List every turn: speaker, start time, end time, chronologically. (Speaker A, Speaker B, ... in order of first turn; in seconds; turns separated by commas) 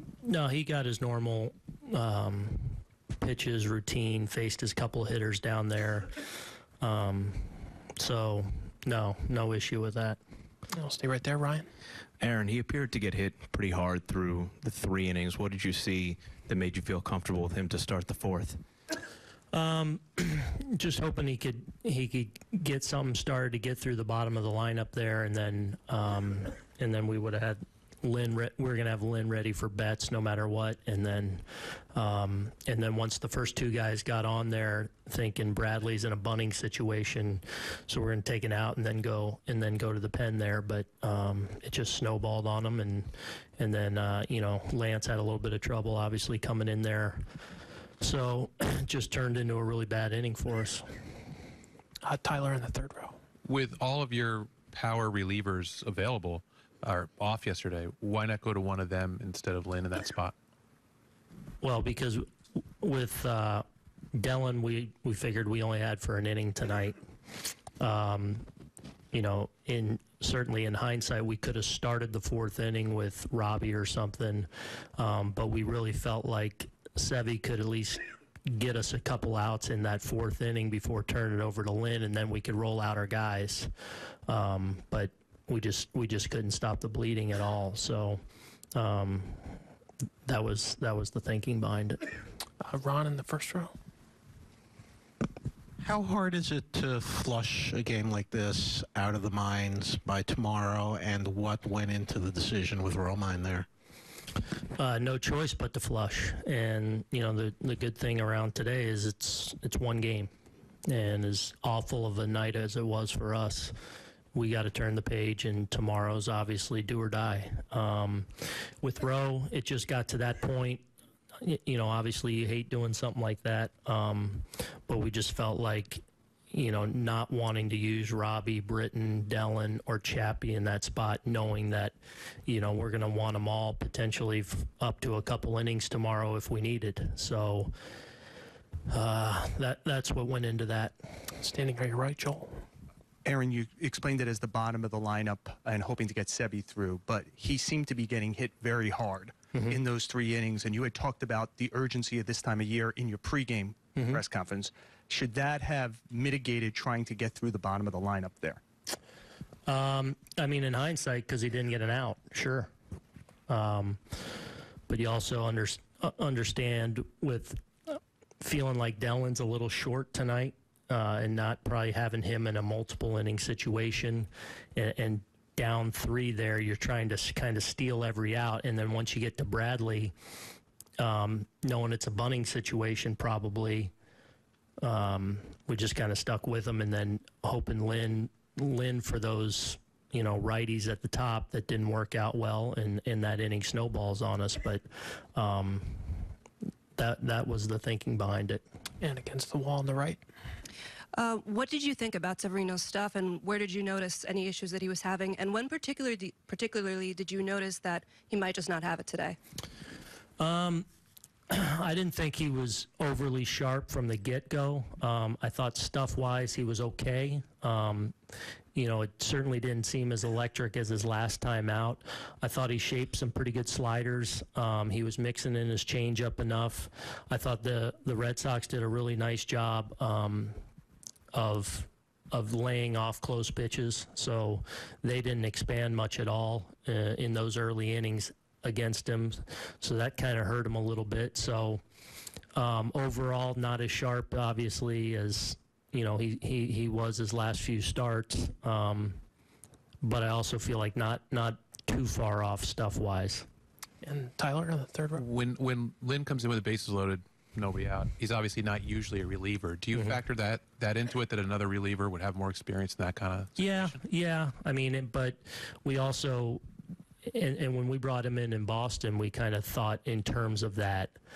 Speaker A: 0.2-6.2, Speaker A: 6.8-10.2, Speaker B: 10.7-11.7, Speaker C: 12.2-18.6, Speaker A: 19.5-47.2, Speaker A: 48.0-50.9, Speaker B: 52.0-53.2, Speaker D: 53.5-60.3, Speaker A: 61.6-62.3, Speaker A: 62.8-67.0, Speaker A: 67.8-68.5, Speaker A: 69.1-83.7, Speaker A: 84.3-88.2, Speaker A: 88.8-89.6, Speaker A: 90.3-92.0, Speaker B: 92.6-93.7, Speaker E: 95.8-103.7, Speaker A: 104.8-110.3, Speaker A: 110.9-113.7, Speaker A: 114.3-120.8, Speaker A: 121.4-137.7, Speaker A: 138.9-141.1, Speaker B: 141.4-142.7, Speaker F: 143.2-158.6, Speaker A: 159.7-162.7, Speaker A: 163.5-164.0, Speaker A: 164.9-180.1, Speaker A: 181.0-183.9, Speaker A: 184.8-196.2, Speaker A: 197.0-198.6, Speaker B: 199.0-200.2, Speaker G: 201.1-209.4, Speaker A: 210.4-210.8, Speaker A: 211.5-218.1, Speaker A: 218.8-230.6, Speaker A: 231.3-241.8, Speaker A: 242.6-249.2, Speaker A: 250.0-253.5, Speaker B: 254.0-255.2, Speaker D: 255.2-264.0, Speaker A: 263.6-266.6, Speaker A: 267.3-271.2